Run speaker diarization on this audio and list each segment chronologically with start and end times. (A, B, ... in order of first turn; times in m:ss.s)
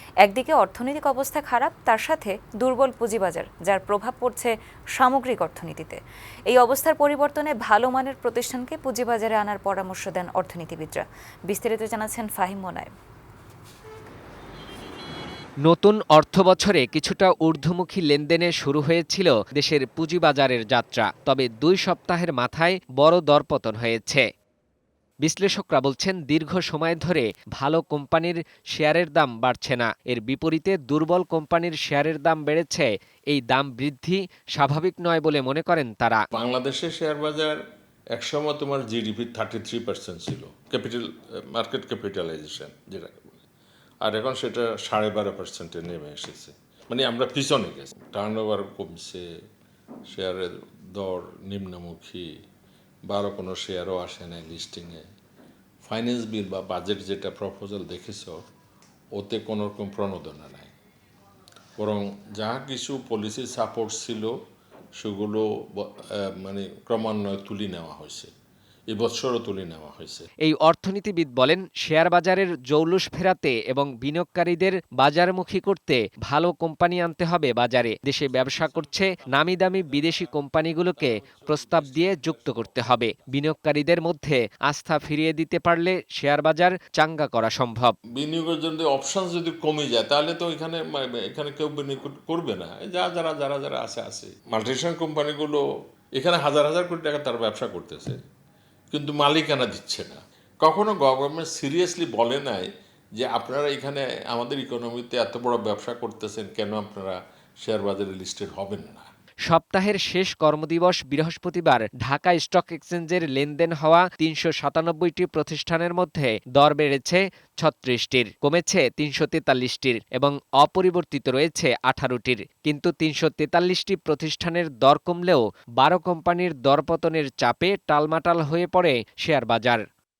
0:00.2-0:06.0 A
0:06.5-0:12.9 A
0:15.6-0:24.2 B
0:25.2-0:36.2 B
0:36.3-0:37.6 C
0:38.1-0:43.4 C
0:44.0-0:49.2 C
0:50.1-0:52.3 C
0:53.1-0:55.1 C
0:55.8-0:58.4 C
0:59.2-1:00.7 C
1:01.8-1:04.3 C
1:05.0-1:08.3 C
1:08.9-1:10.3 C
1:10.4-1:28.0 B
1:18.3-1:23.0 C
1:28.2-1:35.6 C
1:36.2-1:38.2 C
1:38.9-1:49.1 C
1:49.5-2:09.8 B